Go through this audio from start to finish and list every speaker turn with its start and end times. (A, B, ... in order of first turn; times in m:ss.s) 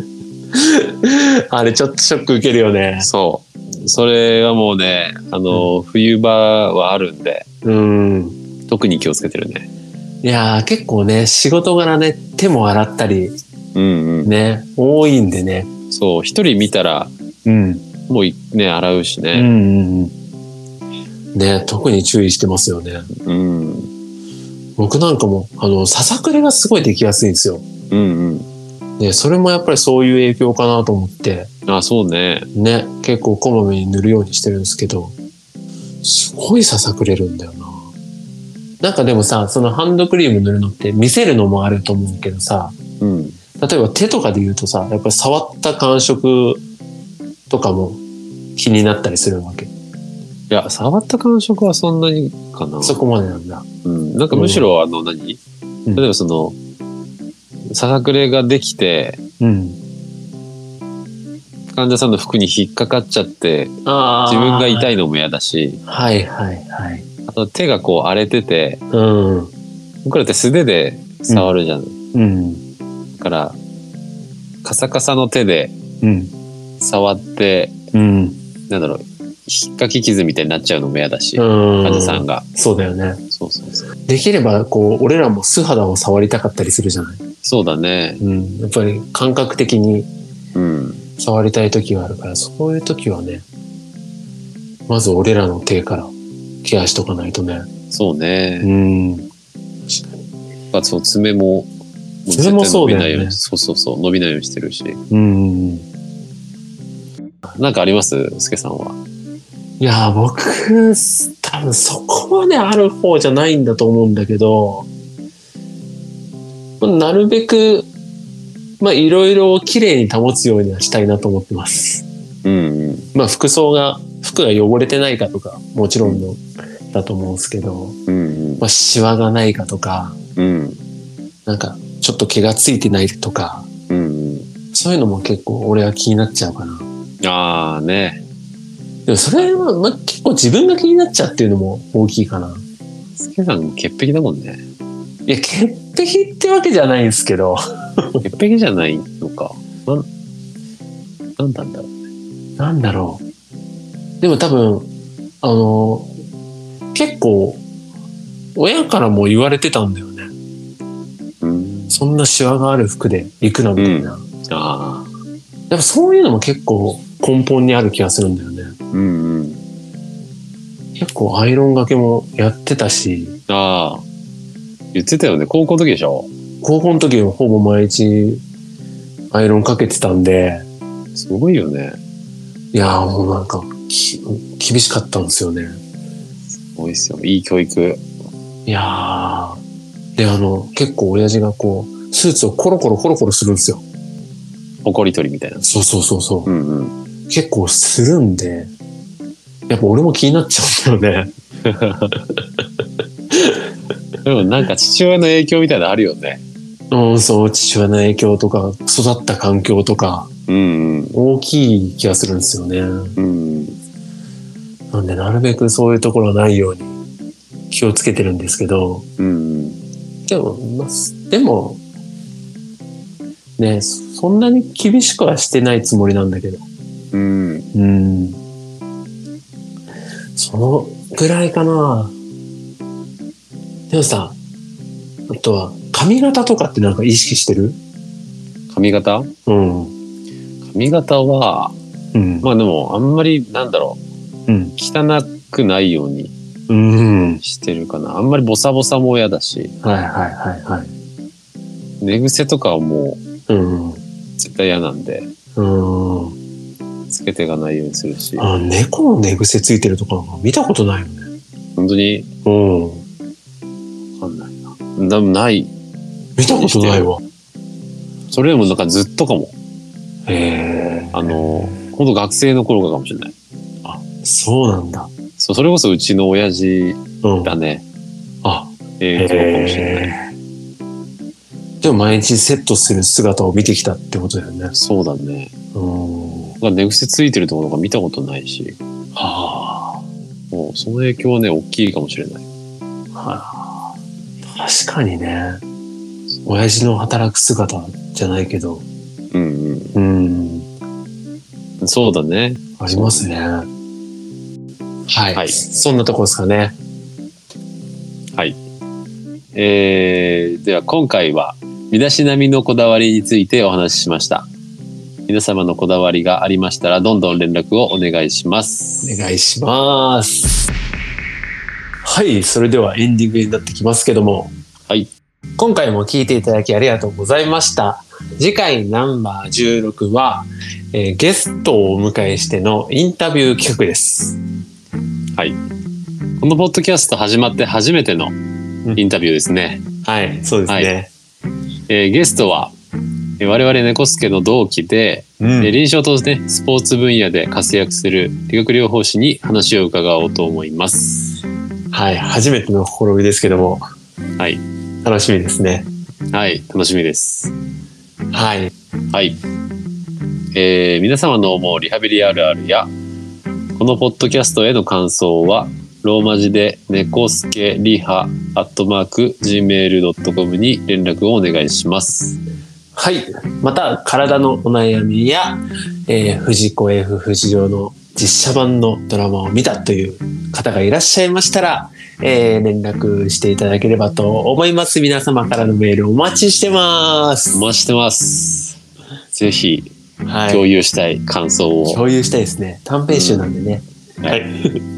0:00.5-0:03.1 A
0:03.0-0:07.5 B
0:07.6-0:08.4 A
0:08.7-0:09.7 B
0:10.2-0:13.4 A
0:13.8-0:14.3 B
0:14.2-0:15.7 A
0:15.9-0:17.1 B
0:17.4-0:17.8 A
0:18.1-0:19.5 B
0:19.3-0:20.1 A
0:21.3-0:23.1 A
0:23.1-0:23.9 B
0:24.8-0:27.6 A
0:27.9-0:28.5 B
0:29.0-0:31.5 A
0:31.7-0:32.5 B
0:32.5-0:35.2 A
0:36.0-0:37.9 A
0:38.8-0:42.8 A
0:43.0-0:43.4 B
0:43.6-0:46.6 A
0:47.5-0:48.0 A
0:48.6-0:49.7 A
0:50.5-0:53.0 B
0:52.8-0:53.6 A
0:53.8-0:55.4 B
0:54.3-0:54.7 A
0:56.0-0:56.6 B
0:57.7-0:59.2 B
0:59.4-0:59.8 A
1:01.7-1:05.8 B
1:03.8-1:04.9 A
1:05.9-1:07.0 A
1:07.3-1:08.8 B
1:08.9-1:09.5 A
1:10.0-1:11.9 B
1:12.1-1:12.6 A
1:13.2-1:13.6 B
1:14.6-1:15.8 B
1:16.0-1:16.3 A
1:16.8-1:17.8 B
1:17.9-1:18.4 A
1:18.7-1:22.4 B
1:21.4-1:23.2 A
1:23.3-1:23.9 B
1:24.1-1:27.2 A
1:27.4-1:28.2 B
1:28.2-1:30.1 A
1:30.6-1:31.0 B
1:31.2-1:33.4 A
1:34.9-1:37.7 A
1:37.9-1:38.7 B
1:38.6-1:39.3 A
1:40.7-1:41.7 B
1:42.2-1:45.0 B
1:42.3-1:43.4 A
1:45.1-1:45.8 A
1:47.5-1:49.0 B
1:49.8-1:54.9 A
1:56.8-1:57.9 A
1:58.8-2:02.0 A
2:02.4-2:03.1 B
2:03.1-2:08.0 A
2:08.1-2:08.6 B
2:08.6-2:10.2 A
2:10.4-2:10.8 B
2:11.5-2:13.7 A
2:13.9-2:14.5 B
2:14.7-2:16.9 A
2:17.2-2:18.2 B
2:19.1-2:22.6 A
2:19.4-2:19.6 B
2:23.2-2:24.6 B
2:25.3-2:28.2 A
2:28.2-2:30.1 B
2:31.4-2:31.9 B
2:32.6-2:33.2 A
2:34.2-2:34.9 A
2:35.4-2:36.1 A
2:36.9-2:37.6 A
2:38.6-2:40.3 A
2:41.4-2:42.0 B
2:41.9-2:44.2 A
2:43.8-2:45.1 B
2:45.7-2:48.7 A
2:48.9-2:49.6 B
2:51.0-2:53.4 A
2:53.5-2:54.0 B
2:54.9-2:56.3 B
2:56.6-2:58.4 A
2:59.3-3:00.6 A
3:01.2-3:02.0 B
3:02.7-3:05.8 A
3:06.6-3:08.0 B
3:08.7-3:09.6 A
3:10.2-3:13.8 A
3:14.8-3:15.6 B
3:15.6-3:16.5 A
3:16.5-3:16.9 B
3:17.3-3:18.7 A
3:19.7-3:21.3 A
3:21.6-3:22.2 B
3:23.3-3:23.7 A
3:24.2-3:26.4 B
3:26.9-3:30.3 A
3:30.5-3:31.2 B
3:31.1-3:33.2 A
3:33.2-3:33.8 B
3:34.9-3:37.0 A
3:37.7-3:39.0 A
3:39.2-3:39.8 B
3:40.3-3:41.8 A
3:43.6-3:46.6 A
3:47.1-3:47.7 B
3:47.7-3:48.4 A
3:50.4-3:52.2 A
3:53.9-3:54.4 A
3:55.3-3:57.8 A
3:58.7-3:59.3 B
3:59.5-3:59.9 A
4:00.6-4:01.8 B
4:02.1-4:02.5 A
4:02.4-4:04.0 B
4:04.5-4:04.8 A
4:04.8-4:06.3 B
4:06.7-4:07.4 A
4:07.4-4:09.7 B
4:09.8-4:10.9 A
4:12.0-4:13.2 B
4:13.5-4:14.0 A
4:14.4-4:15.3 B
4:15.6-4:16.4 A
4:17.1-4:18.5 B
4:18.4-4:21.3 A
4:21.8-4:22.3 B
4:22.4-4:23.0 A
4:24.2-4:25.7 B
4:26.4-4:27.2 A
4:26.4-4:27.1 B
4:28.3-4:29.5 B
4:30.3-4:31.7 A
4:31.1-4:33.3 B
4:33.8-4:35.1 A
4:35.4-4:37.8 B
4:37.2-4:37.5 A
4:38.4-4:40.2 A
4:39.0-4:40.2 B
4:41.8-4:44.7 A
4:44.7-4:45.5 B
4:45.7-4:46.6 A
4:46.6-4:48.8 B
4:49.2-4:50.0 A
4:50.5-4:52.4 B
4:53.2-4:53.9 A
4:54.5-4:55.6 A
4:56.5-4:58.8 A
4:59.3-5:00.0 B
5:00.0-5:00.7 A
5:01.8-5:03.3 B
5:02.8-5:03.7 A
5:05.1-5:06.8 A
5:05.3-5:05.6 B
5:09.5-5:14.5 B
5:15.3-5:19.2 B
5:19.0-5:20.7 A
5:22.0-5:24.5 A
5:25.6-5:34.4 A
5:36.4-5:38.4 B
5:39.0-5:39.9 B
5:40.0-5:41.1 A
5:41.9-5:42.7 B
5:43.4-5:51.4 B
5:45.4-5:45.7 A
5:51.9-5:53.8 A
5:55.0-5:55.9 A
5:56.3-5:57.5 B
5:58.3-5:58.7 A
5:59.1-5:59.4 B
6:00.5-6:02.9 B
6:03.8-6:12.4 B
6:13.0-6:27.6 A
6:27.5-6:28.8 B
6:29.3-6:29.9 B
6:30.3-6:30.6 A
6:30.5-6:32.0 B
6:31.9-6:34.8 A
6:33.1-6:33.5 B